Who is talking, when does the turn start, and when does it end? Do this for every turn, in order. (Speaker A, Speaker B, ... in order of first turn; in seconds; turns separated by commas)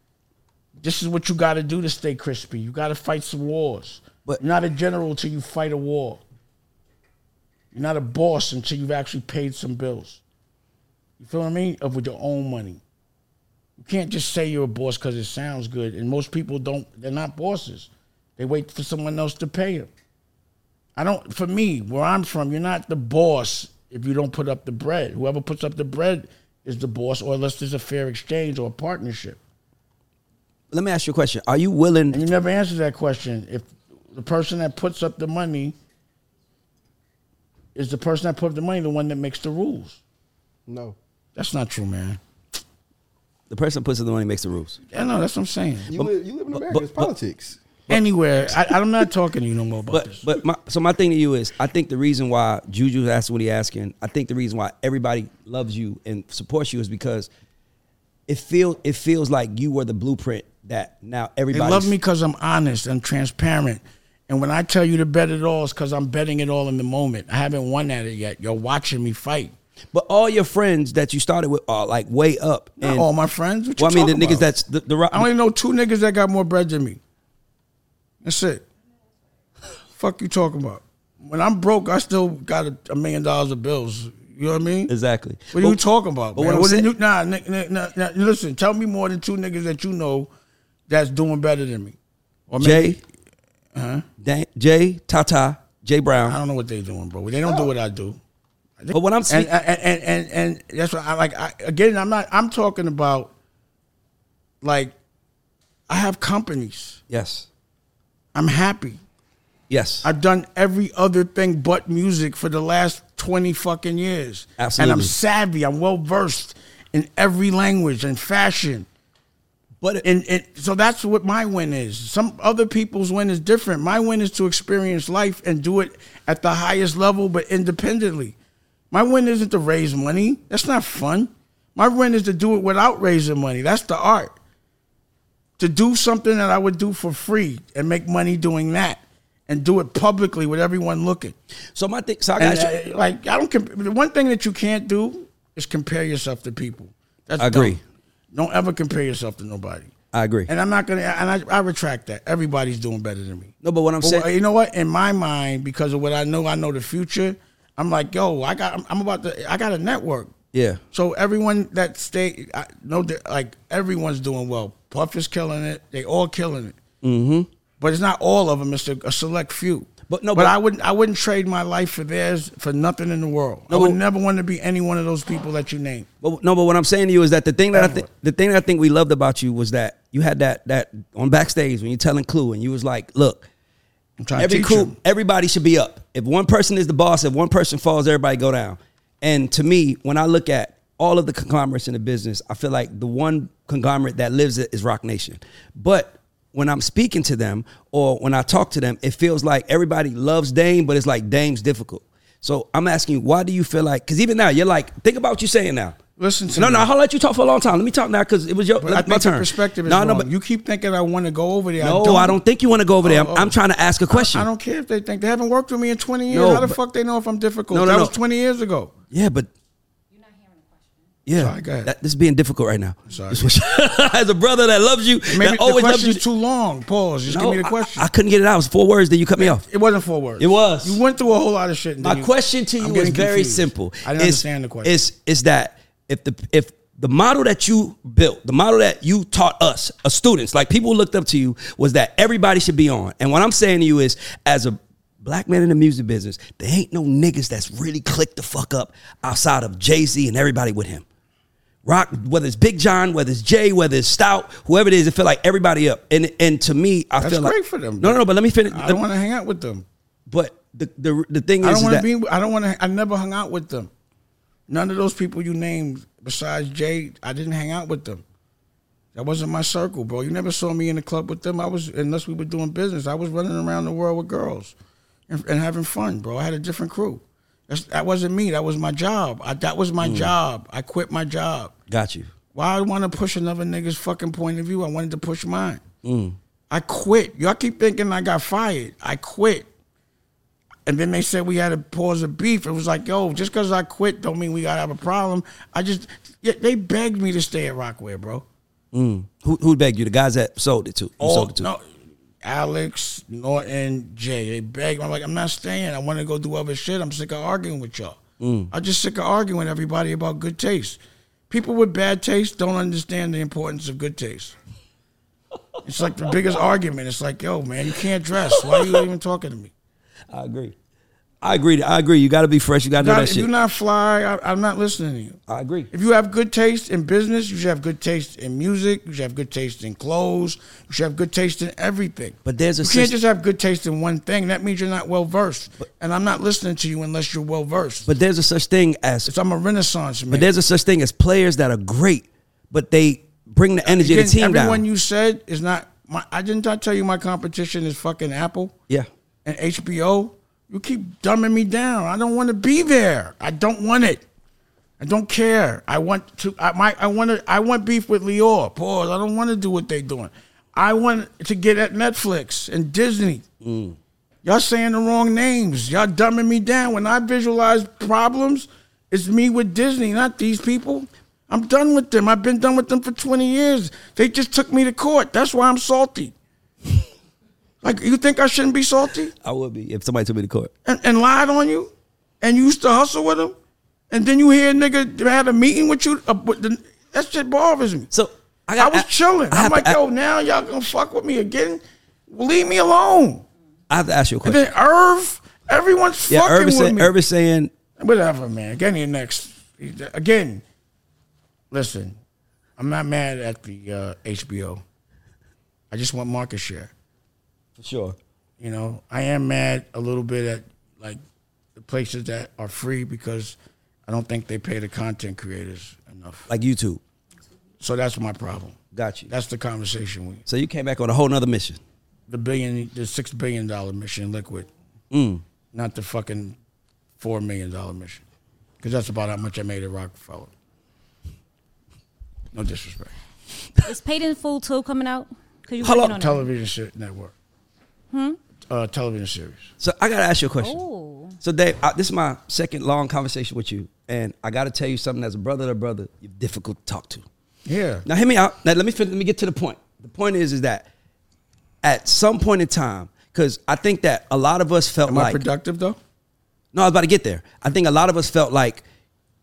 Speaker A: 0.8-6.2, Speaker A: 7.7-10.2, Speaker A: 11.2-12.8, Speaker A: 13.8-19.9, Speaker A: 20.9-29.4, Speaker B: 30.7-32.2, Speaker A: 32.1-35.7, Speaker A: 37.7-40.0, Speaker C: 40.6-41.0, Speaker A: 41.4-42.2, Speaker B: 43.5-44.8, Speaker A: 44.9-45.9, Speaker C: 45.9-47.6, Speaker B: 45.9-47.1, Speaker B: 47.9-48.7, Speaker A: 47.9-50.2, Speaker B: 49.9-57.3, Speaker B: 58.3-61.9, Speaker A: 61.5-69.5, Speaker B: 69.9-73.0, Speaker A: 72.8-74.5, Speaker B: 73.8-75.3, Speaker A: 75.1-77.0, Speaker A: 78.2-78.6, Speaker A: 80.0-84.9, Speaker B: 84.9-85.8, Speaker A: 85.5-90.3, Speaker B: 86.3-86.9, Speaker A: 90.9-92.0, Speaker A: 92.5-93.0, Speaker B: 92.6-93.0, Speaker A: 93.7-94.0, Speaker B: 94.2-96.4, Speaker A: 96.2-98.2, Speaker A: 98.8-103.3, Speaker B: 98.9-99.5, Speaker A: 104.6-104.9, Speaker A: 105.9-107.0, Speaker B: 107.1-107.5, Speaker A: 108.3-109.0, Speaker B: 109.7-110.1, Speaker A: 110.0-118.9, Speaker B: 114.6-115.1, Speaker A: 120.0-128.3, Speaker A: 128.9-134.3, Speaker A: 135.6-141.3, Speaker B: 141.7-142.7, Speaker A: 142.4-147.8, Speaker B: 147.4-147.8, Speaker A: 148.3-149.9, Speaker B: 150.1-150.5, Speaker A: 150.5-160.3, Speaker B: 153.6-154.3, Speaker B: 160.5-160.8, Speaker A: 160.9-166.7, Speaker B: 167.0-167.5, Speaker A: 167.8-176.1, Speaker B: 170.1-170.5, Speaker B: 173.7-174.0, Speaker B: 176.2-183.5, Speaker A: 177.7-178.1, Speaker A: 184.2-184.9, Speaker B: 184.4-206.0, Speaker A: 206.2-206.9, Speaker B: 206.5-210.3, Speaker A: 208.8-212.4, Speaker B: 211.8-214.5, Speaker A: 213.0-213.5, Speaker A: 214.1-218.9, Speaker B: 216.3-216.8, Speaker B: 217.7-218.1, Speaker B: 219.1-219.5, Speaker D: 220.1-221.2, Speaker B: 221.2-226.2, Speaker A: 221.3-221.9, Speaker A: 223.1-223.5, Speaker A: 225.3-228.1, Speaker B: 227.3-229.6, Speaker A: 229.4-234.9, Speaker B: 230.4-231.0, Speaker B: 232.0-251.0, Speaker B: 251.8-259.0, Speaker A: 257.2-259.8, Speaker B: 260.3-262.1, Speaker A: 261.6-263.9, Speaker A: 264.7-268.2, Speaker A: 269.1-274.7, Speaker A: 275.3-281.7, Speaker B: 280.0-280.3, Speaker B: 281.9-282.3, Speaker A: 282.5-285.8, Speaker B: 286.0-286.4, Speaker A: 286.7-289.7, Speaker A: 290.9-298.4, Speaker B: 298.9-301.7, Speaker A: 301.2-301.8, Speaker A: 302.4-308.2, Speaker B: 308.4-308.7, Speaker A: 308.7-314.5, Speaker A: 315.8-319.7, Speaker B: 318.5-319.0, Speaker B: 320.3-320.7, Speaker B: 321.4-323.5, Speaker A: 323.0-325.4, Speaker B: 325.5-325.9, Speaker A: 325.9-338.1, Speaker B: 332.4-333.1, Speaker B: 338.1-339.3, Speaker A: 339.2-340.5, Speaker B: 340.3-344.8, Speaker A: 343.8-348.7, Speaker A: 349.4-354.2, Speaker A: 355.0-363.4, Speaker B: 363.6-364.0, Speaker A: 364.4-376.3, Speaker A: 377.8-379.3, Speaker B: 379.4-380.7, Speaker A: 380.8-381.9, Speaker A: 382.4-383.5, Speaker A: 384.1-388.1, Speaker B: 388.1-390.0, Speaker A: 388.8-393.4, Speaker B: 393.9-394.6, Speaker A: 394.4-397.1, Speaker B: 396.3-397.7, Speaker A: 398.0-400.6, Speaker A: 401.7-402.1, Speaker A: 402.8-404.8, Speaker A: 405.9-406.9, Speaker B: 407.8-408.1, Speaker A: 408.6-411.2, Speaker A: 411.8-416.5, Speaker B: 416.5-417.0, Speaker A: 417.8-418.8, Speaker B: 418.9-419.3, Speaker A: 419.3-420.4, Speaker B: 420.4-421.8, Speaker A: 422.3-424.7, Speaker B: 425.1-425.4, Speaker A: 425.7-426.6, Speaker A: 427.2-428.2, Speaker A: 428.8-430.5, Speaker A: 432.5-433.1, Speaker D: 433.8-436.4, Speaker B: 435.8-436.2, Speaker A: 436.1-437.3, Speaker D: 438.1-438.4, Speaker A: 438.7-439.7, Speaker B: 439.8-440.8, Speaker D: 440.6-441.4, Speaker B: 441.4-447.2, Speaker A: 447.6-448.0, Speaker B: 448.1-450.9, Speaker B: 451.8-455.4, Speaker A: 455.1-456.0, Speaker B: 456.7-458.8